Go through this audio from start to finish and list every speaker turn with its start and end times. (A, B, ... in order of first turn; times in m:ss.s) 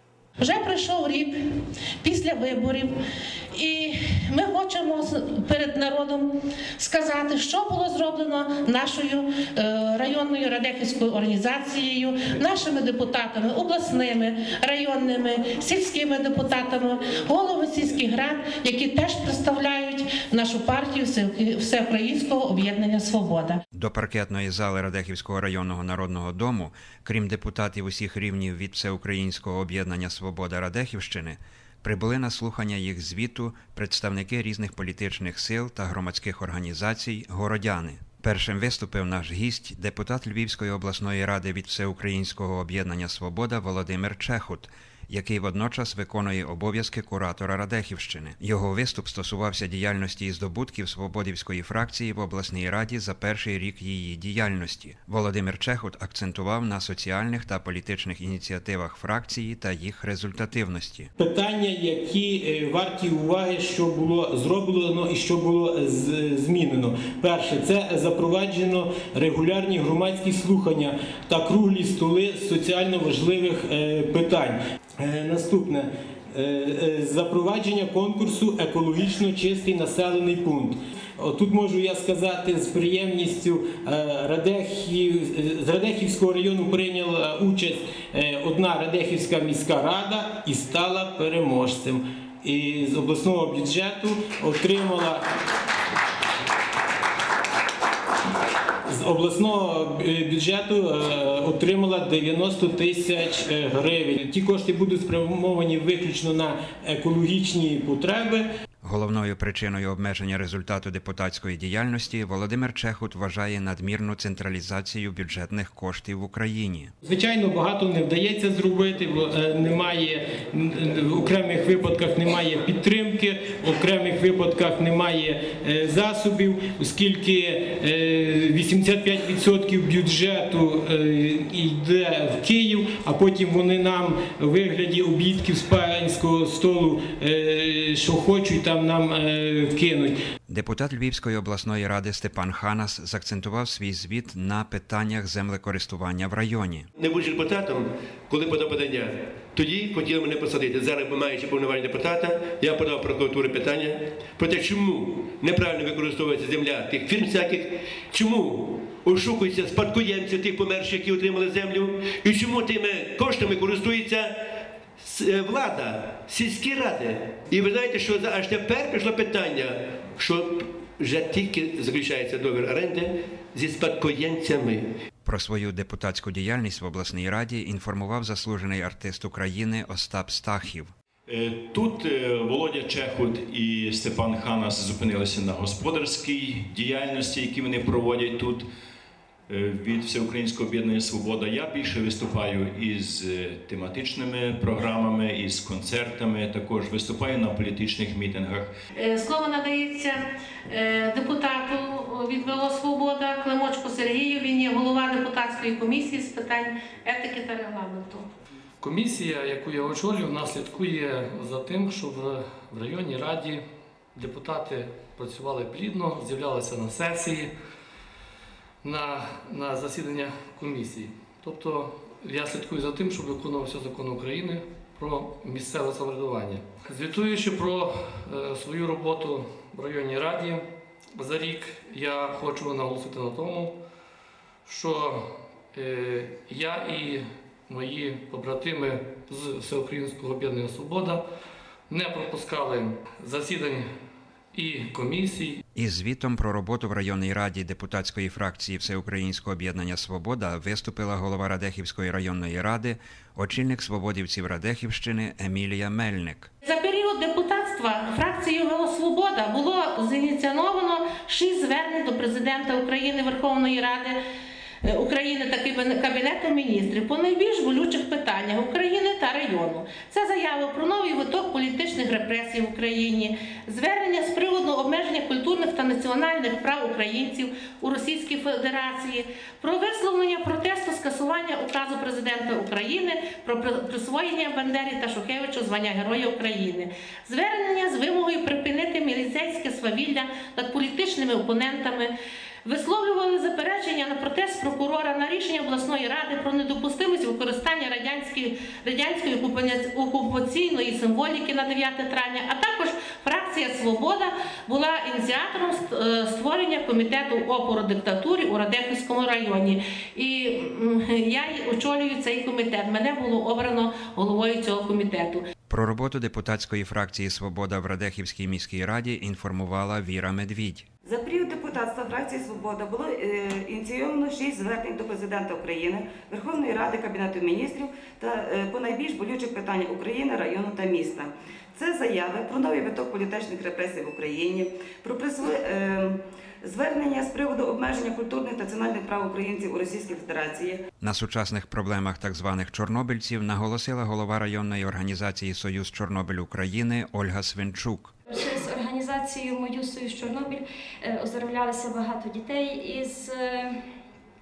0:00.4-0:02.9 A
0:03.5-0:23.6 A
0:23.7-1:01.1 B
1:01.2-1:35.2 C
1:38.9-1:48.4 C
1:48.8-1:56.9 B
1:57.0-2:20.1 C
2:20.5-2:26.9 B
2:27.0-2:44.3 D
2:45.0-2:54.8 D
2:55.2-3:00.9 B
3:01.3-3:08.6 E
3:09.5-3:18.7 E
3:19.0-3:28.2 A
3:28.8-3:33.6 F
3:34.1-3:37.5 F
3:38.8-3:50.6 F
3:51.2-3:53.7 F
3:54.7-4:01.2 F
4:01.9-4:03.9 F
4:04.5-4:05.6 F
4:05.7-4:16.5 B
4:16.6-4:24.2 A
4:24.8-4:52.1 A
4:52.6-5:15.4 A
5:15.7-5:20.9 B
5:21.0-5:40.8 G
5:41.0-5:48.1 B
5:48.3-5:53.7 H